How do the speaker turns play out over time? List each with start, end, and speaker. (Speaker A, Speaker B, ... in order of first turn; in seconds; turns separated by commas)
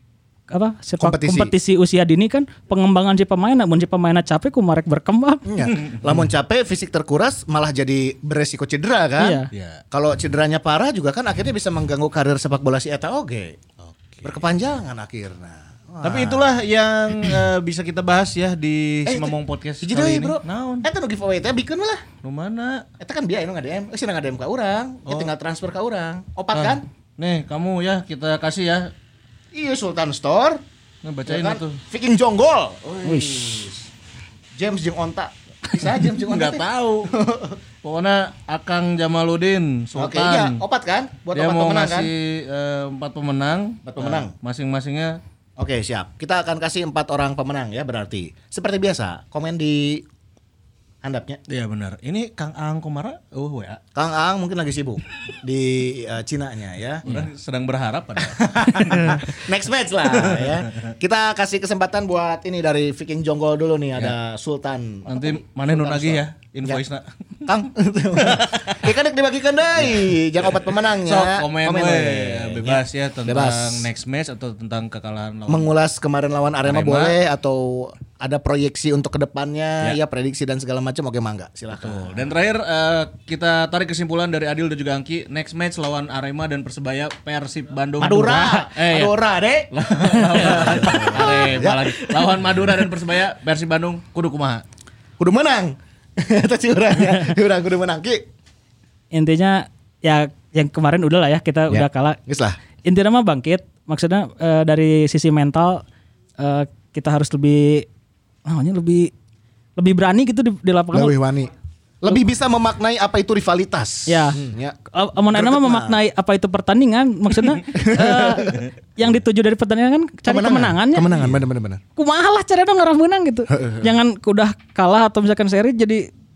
Speaker A: 0.5-5.5, Speaker B: 1.0-1.5, Speaker B: 5.5-13.6, Speaker C: 5.6-6.2, Speaker A: 9.2-9.5, Speaker C: 9.5-9.8, Speaker C: 13.8-14.4, Speaker B: 14.2-16.6, Speaker C: 16.0-20.9, Speaker B: 19.1-22.0, Speaker C: 22.2-22.9, Speaker B: 23.0-26.9, Speaker C: 26.5-28.9, Speaker B: 29.5-30.6, Speaker C: 31.0-31.8, Speaker B: 31.3-33.9, Speaker A: 33.1-33.4, Speaker B: 34.5-37.6, Speaker C: 36.2-37.1, Speaker C: 37.8-40.6, Speaker B: 40.0-42.1, Speaker C: 41.3-45.2, Speaker B: 43.9-44.3, Speaker B: 45.6-50.0, Speaker B: 51.0-51.4, Speaker C: 51.5-53.8, Speaker B: 54.0-57.1, Speaker C: 57.0-59.4, Speaker B: 58.2-66.8, Speaker C: 60.1-60.9, Speaker C: 65.1-67.1, Speaker B: 67.5-73.9, Speaker C: 68.2-68.8, Speaker C: 69.8-75.7, Speaker B: 75.5-82.2, Speaker C: 76.7-77.2, Speaker C: 81.8-89.2, Speaker B: 88.0-92.6, Speaker C: 89.7-94.6, Speaker B: 95.2-98.2, Speaker A: 99.1-102.2, Speaker B: 101.7-102.6, Speaker A: 102.8-105.8, Speaker A: 106.4-107.9, Speaker A: 108.5-109.1, Speaker A: 109.8-111.1, Speaker B: 110.9-114.8, Speaker A: 114.1-121.1, Speaker B: 115.3-116.0, Speaker B: 117.7-118.6, Speaker B: 120.3-121.8, Speaker A: 122.0-126.1, Speaker B: 123.5-123.9